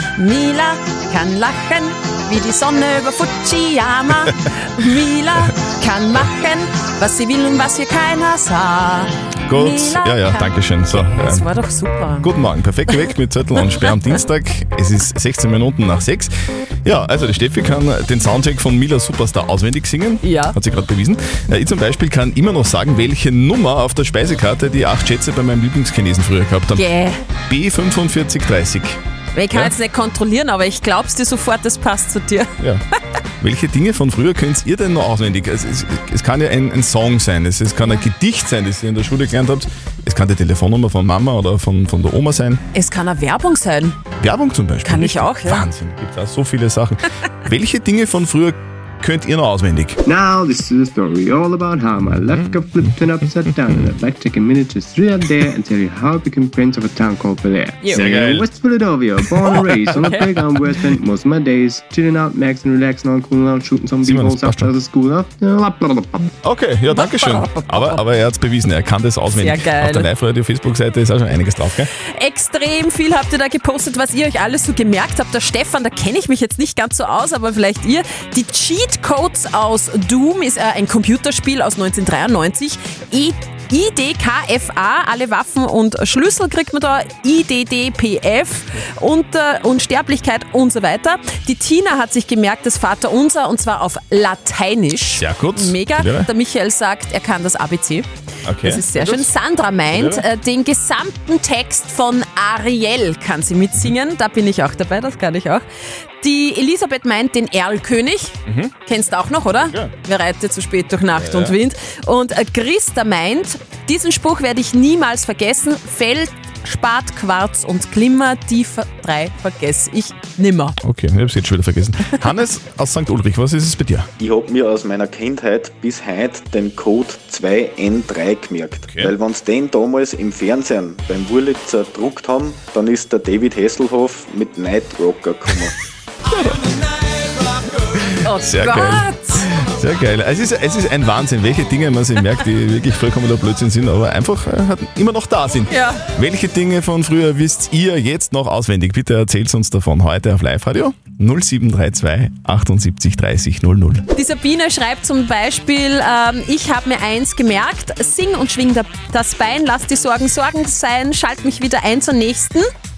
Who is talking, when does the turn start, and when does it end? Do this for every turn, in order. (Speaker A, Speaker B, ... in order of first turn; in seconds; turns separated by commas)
Speaker A: 0.1-12.3, Speaker B: 9.5-11.5, Speaker B: 12.2-16.3, Speaker B: 16.8-26.9, Speaker A: 20.2-20.6, Speaker A: 26.7-27.2, Speaker B: 27.5-29.0, Speaker A: 29.3-32.5, Speaker B: 33.4-42.6, Speaker A: 42.7-44.0, Speaker B: 44.2-50.0, Speaker A: 44.8-45.6, Speaker C: 50.0-66.2, Speaker B: 52.3-53.9, Speaker B: 57.9-58.5, Speaker B: 59.4-60.4, Speaker A: 60.0-60.3, Speaker B: 64.0-64.7, Speaker B: 66.4-71.9, Speaker A: 66.9-68.0, Speaker A: 69.3-70.1, Speaker A: 72.0-98.1, Speaker B: 95.2-96.3, Speaker B: 98.5-99.3, Speaker A: 98.6-105.6, Speaker B: 99.8-100.2, Speaker A: 106.2-120.8, Speaker B: 108.5-108.7, Speaker B: 111.1-111.6, Speaker B: 120.8-124.1, Speaker D: 124.2-135.7, Speaker B: 128.9-129.1, Speaker B: 136.3-136.6, Speaker B: 138.1-154.1, Speaker A: 138.2-139.5, Speaker A: 145.7-146.0, Speaker A: 154.1-162.7